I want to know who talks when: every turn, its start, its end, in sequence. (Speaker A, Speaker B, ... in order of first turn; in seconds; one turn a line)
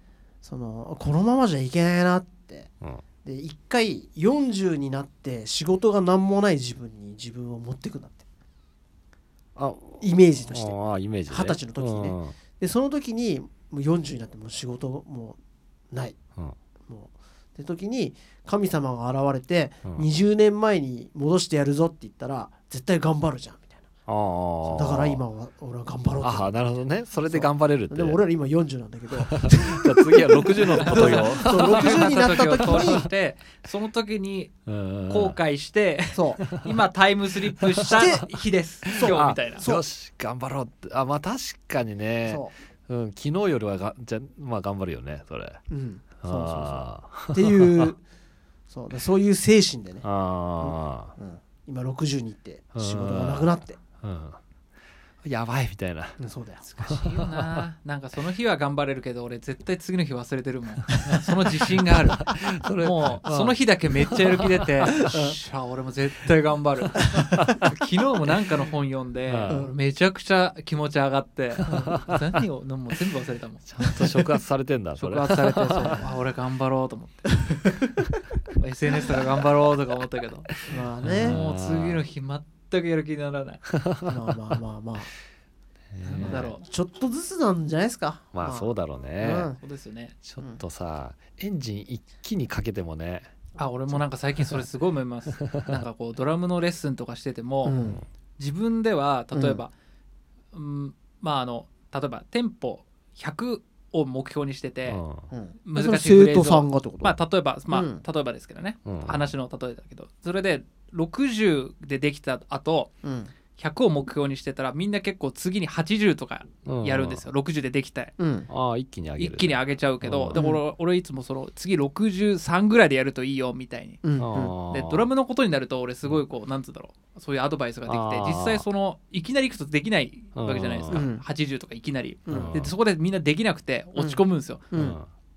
Speaker A: 0.4-2.7
Speaker A: 3.2-8.2
Speaker B: 9.6-12.3
Speaker A: 10.0-10.8
Speaker A: 11.3-15.4
Speaker A: 16.9-23.9
Speaker B: 24.1-25.2
Speaker A: 24.6-26.5
Speaker B: 26.2-28.2
Speaker A: 27.2-33.1
Speaker B: 29.1-33.0
Speaker C: 30.8-34.5
Speaker B: 34.7-35.4
Speaker C: 35.1-39.6
Speaker A: 36.1-36.5
Speaker B: 36.5-36.8
Speaker B: 37.7-38.4
Speaker A: 37.8-38.3
Speaker A: 38.9-39.9
Speaker B: 38.9-45.6
Speaker A: 42.3-42.5
Speaker A: 45.7-48.0
Speaker B: 46.2-47.9
Speaker A: 48.7-50.1
Speaker B: 50.0-51.1
Speaker A: 50.6-53.8
Speaker B: 52.8-53.5
Speaker B: 54.0-54.4
Speaker B: 55.2-56.2
Speaker A: 56.2-56.6
Speaker C: 56.6-74.3
Speaker B: 56.8-57.6
Speaker B: 60.9-65.1
Speaker A: 65.1-65.4
Speaker B: 67.2-67.7
Speaker B: 69.3-69.7
Speaker A: 69.5-69.7
Speaker B: 71.6-72.2
Speaker B: 73.7-76.0
Speaker C: 75.0-77.6
Speaker C: 78.6-80.5
Speaker A: 80.7-81.4
Speaker B: 81.0-82.0
Speaker C: 81.1-83.6
Speaker B: 83.7-84.3
Speaker A: 84.1-85.1
Speaker B: 85.9-86.6
Speaker C: 86.0-86.7
Speaker A: 86.2-89.6
Speaker B: 88.3-89.5
Speaker C: 89.6-90.2
Speaker B: 90.2-93.3
Speaker C: 93.6-97.8
Speaker B: 95.4-95.8
Speaker A: 97.6-98.0
Speaker B: 97.7-98.0
Speaker C: 98.4-99.7
Speaker A: 99.3-99.6
Speaker C: 100.5-105.0
Speaker B: 104.9-105.2
Speaker A: 105.3-107.2
Speaker C: 105.6-112.9
Speaker A: 107.7-108.0
Speaker B: 108.8-109.3
Speaker A: 113.0-113.3
Speaker C: 113.6-118.1
Speaker B: 116.7-117.2
Speaker A: 118.2-118.5
Speaker B: 118.5-120.4
Speaker C: 119.2-124.0
Speaker A: 120.3-120.6
Speaker A: 124.0-124.5
Speaker B: 124.2-125.1
Speaker C: 124.7-134.9
Speaker B: 127.9-128.7
Speaker B: 130.3-131.1
Speaker A: 130.9-131.2
Speaker A: 132.3-132.6
Speaker B: 132.3-132.7
Speaker A: 134.7-135.0
Speaker B: 134.7-135.1